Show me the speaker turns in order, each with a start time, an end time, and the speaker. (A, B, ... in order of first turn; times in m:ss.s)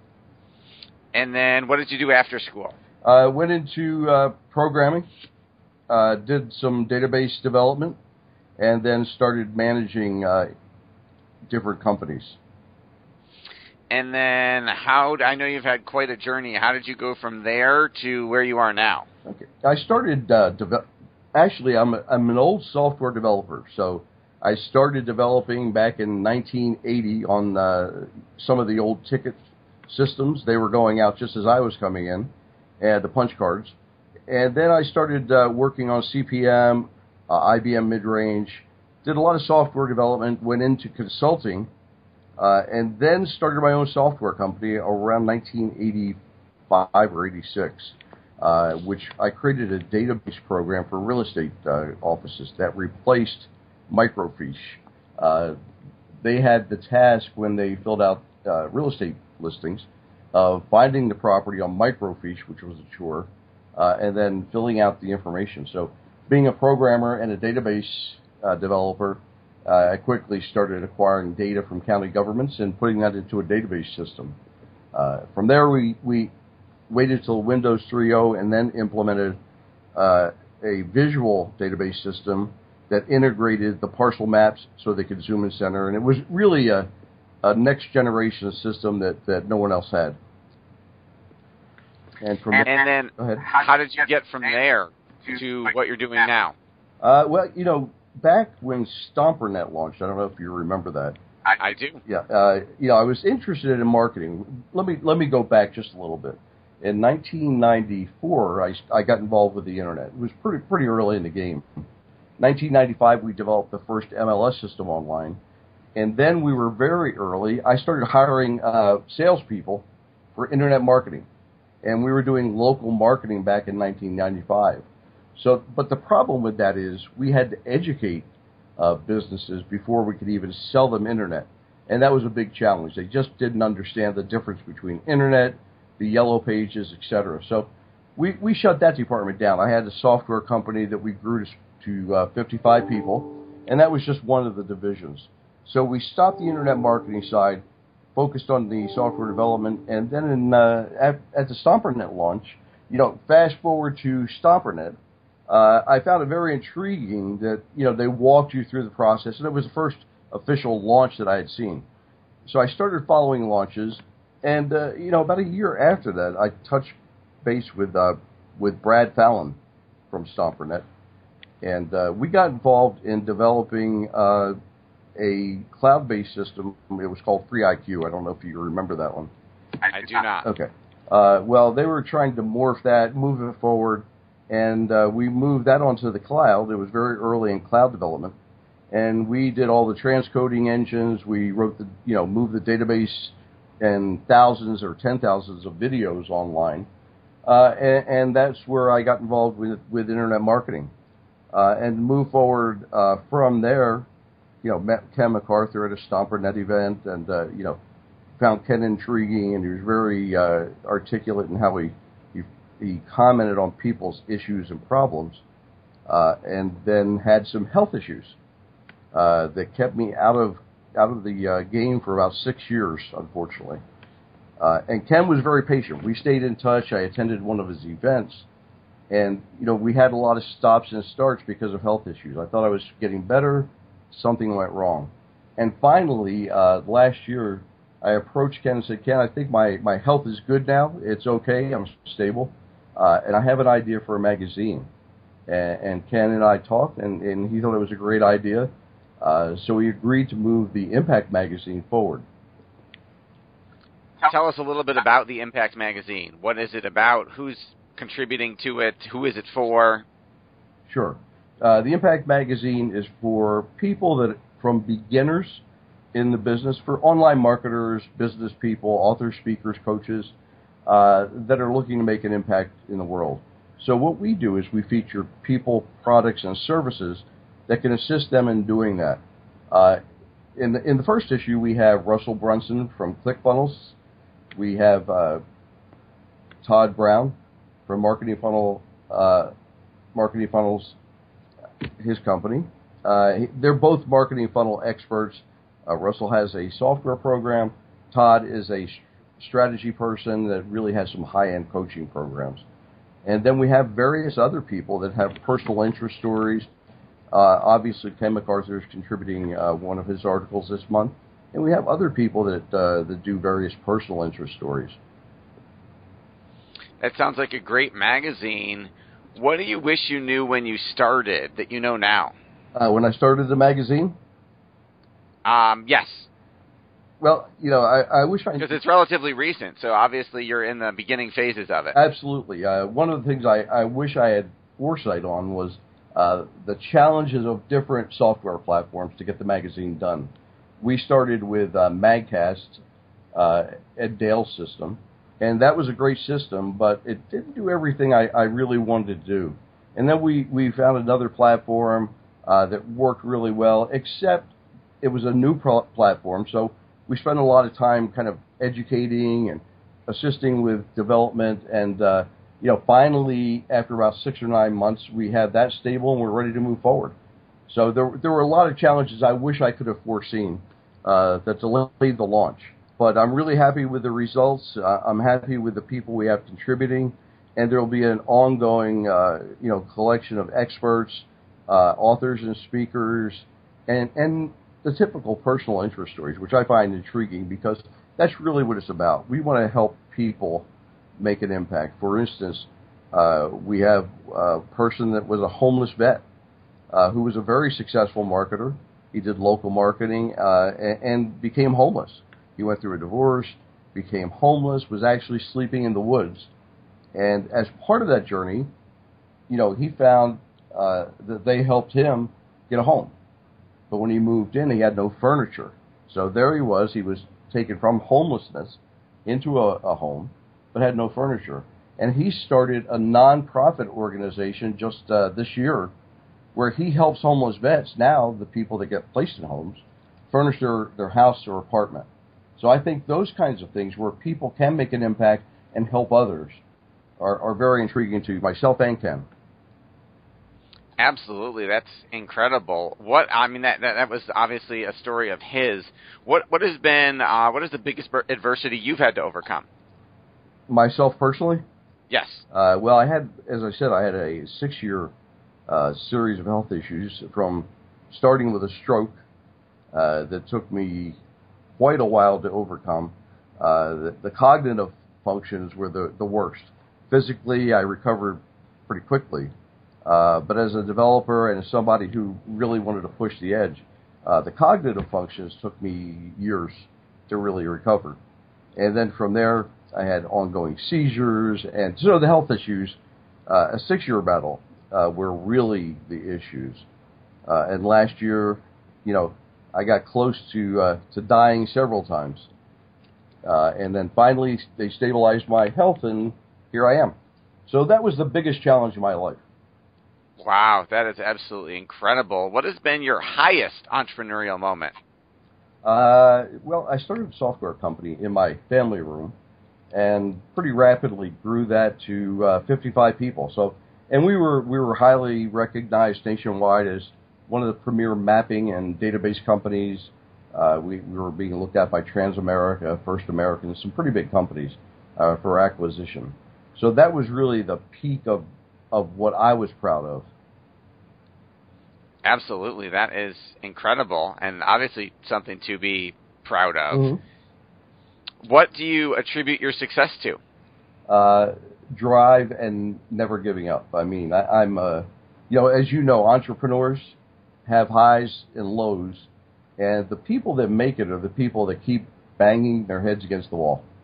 0:01.1-0:02.7 A
0:03.0-0:05.0 B
0:05.9-0:08.0 B
0:08.6-0:10.5 B
0:11.5-0:12.4 B
0:13.9-0:19.0 A
0:19.2-0:33.8 B
0:34.3-0:41.7 B
0:42.4-0:46.2 B
0:46.7-0:55.6 B
0:56.2-1:14.4 B
1:14.9-1:16.3 B
1:16.9-1:19.4 B
1:19.9-1:26.9 B
1:27.4-1:30.2 B
1:32.2-1:33.4 B
1:32.6-1:36.5 A
1:37.0-1:41.2 B
1:41.6-1:42.0 A
1:42.0-1:51.6 B
1:52.4-1:55.4 B
1:56.0-2:01.2 B
2:01.8-2:04.8 B
2:05.4-2:08.3 B
2:08.8-2:27.6 B
2:28.2-2:35.0 B
2:35.5-2:41.8 B
2:42.4-2:49.6 B
2:50.1-2:50.8 B
2:51.6-2:54.6 B
2:55.2-2:59.3 B
2:59.9-3:00.5 A
3:00.4-3:08.3 B
3:08.9-3:16.9 B
3:17.4-3:20.9 B
3:21.5-3:24.1 B
3:24.6-3:27.8 B
3:28.4-3:35.4 B
3:36.1-3:38.4 B
3:39.1-3:43.8 B
3:44.6-3:48.5 B
3:49.1-4:04.9 B
4:05.5-4:08.7 B
4:09.2-4:12.2 B
4:14.2-4:20.0 A
4:20.9-4:30.3 B
4:30.8-4:40.0 B
4:40.6-4:44.0 B
4:44.6-4:45.4 B
4:46.6-4:47.4 B
4:47.9-4:49.5 B
4:50.1-4:51.0 B
4:52.0-5:02.6 B
5:03.2-5:06.7 B
5:07.3-5:15.0 B
5:17.0-5:22.3 A
5:22.7-5:24.1 B
5:25.4-5:26.3 A
5:27.2-5:28.8 B
5:28.6-5:31.9 A
5:31.9-5:40.3 B
5:40.8-5:42.8 B
5:43.3-6:07.1 B
6:07.7-6:30.7 B
6:31.2-6:36.2 B
6:36.9-6:46.5 B
6:47.1-6:48.7 B
6:49.5-6:53.1 B
6:53.9-7:05.9 B
7:06.5-7:12.1 B
7:12.6-7:16.6 B
7:17.2-7:19.3 B
7:21.0-7:29.6 A
7:30.7-7:31.6 B
7:32.1-7:32.4 A
7:32.5-7:35.1 B
7:35.7-7:39.2 B
7:39.9-7:41.2 B
7:41.8-7:49.5 B
7:50.0-7:58.2 B
7:58.8-8:06.8 B
8:07.5-8:12.5 B
8:13.4-8:17.1 B
8:17.7-8:19.4 B
8:20.4-8:24.9 A
8:25.8-8:29.3 B
8:29.9-8:50.3 B
8:52.2-8:57.1 A
8:56.9-8:57.2 B
8:58.4-9:00.4 A
9:01.1-9:13.8 B